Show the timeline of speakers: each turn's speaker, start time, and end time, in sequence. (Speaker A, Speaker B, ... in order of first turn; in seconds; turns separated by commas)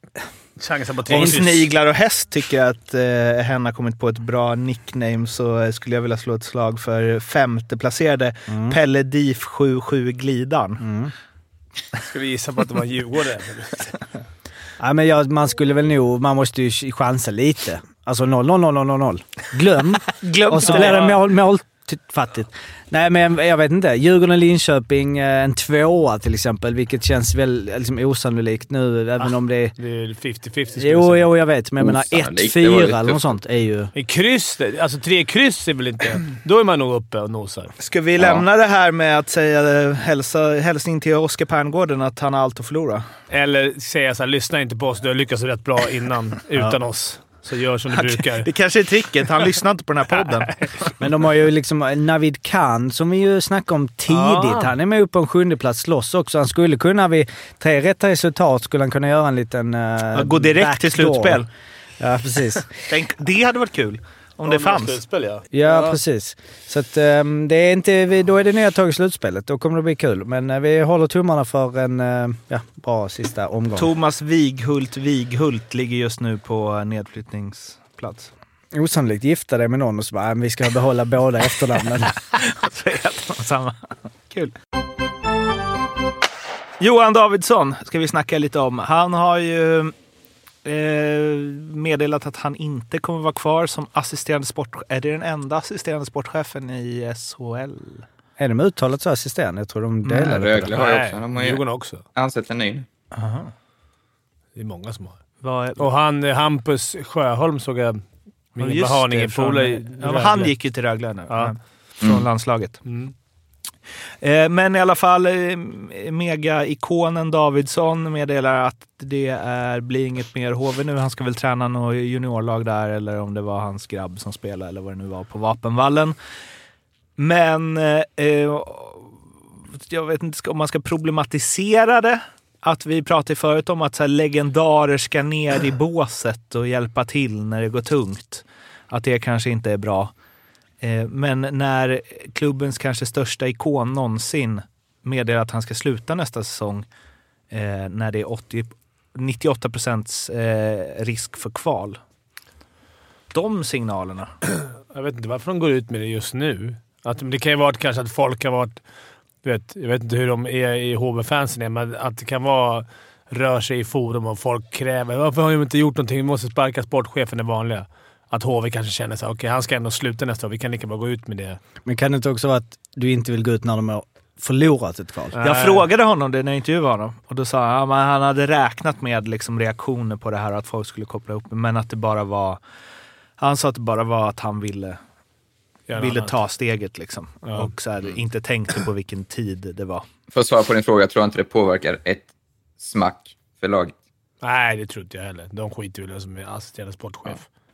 Speaker A: 0.6-1.7, Speaker B: 1.1-10.8, Speaker C: 8.5-8.8, Speaker C: 10.8-11.1, Speaker A: 11.9-13.9, Speaker C: 14.8-29.7, Speaker B: 20.2-21.1, Speaker A: 20.6-21.2, Speaker A: 29.2-31.3, Speaker C: 30.8-33.9, Speaker D: 31.8-33.3, Speaker A: 33.9-37.7, Speaker B: 37.8-43.0, Speaker D: 38.2-38.4, Speaker A: 43.3-48.5, Speaker B: 48.0-50.6, Speaker C: 51.0-61.5, Speaker A: 54.1-54.7, Speaker B: 60.1-61.5, Speaker C: 62.0-62.7, Speaker B: 62.9-65.0, Speaker A: 64.4-65.9, Speaker C: 65.5-73.9, Speaker B: 73.8-78.3, Speaker C: 78.7-82.2, Speaker B: 82.3-83.8, Speaker B: 84.3-84.5, Speaker B: 86.8-89.9, Speaker B: 90.6-98.0, Speaker C: 98.4-100.7, Speaker D: 100.0-101.6, Speaker A: 100.7-102.0, Speaker D: 102.1-102.8, Speaker B: 103.1-103.5, Speaker A: 104.5-105.2, Speaker B: 105.4-105.8, Speaker A: 105.8-108.0, Speaker A: 108.5-110.5, Speaker B: 108.6-112.8, Speaker A: 112.9-113.1, Speaker B: 114.2-126.2, Speaker B: 127.2-129.1, Speaker B: 129.9-140.1, Speaker B: 140.8-146.8, Speaker B: 147.5-152.0, Speaker B: 153.3-154.3, Speaker A: 154.9-158.8, Speaker A: 159.4-171.6, Speaker C: 171.8-175.4, Speaker A: 175.3-175.8, Speaker B: 175.4-182.6, Speaker B: 183.4-185.0, Speaker A: 185.9-186.3, Speaker B: 185.9-190.0, Speaker A: 187.4-187.7, Speaker D: 190.3-192.3, Speaker D: 192.8-193.9, Speaker A: 194.4-197.4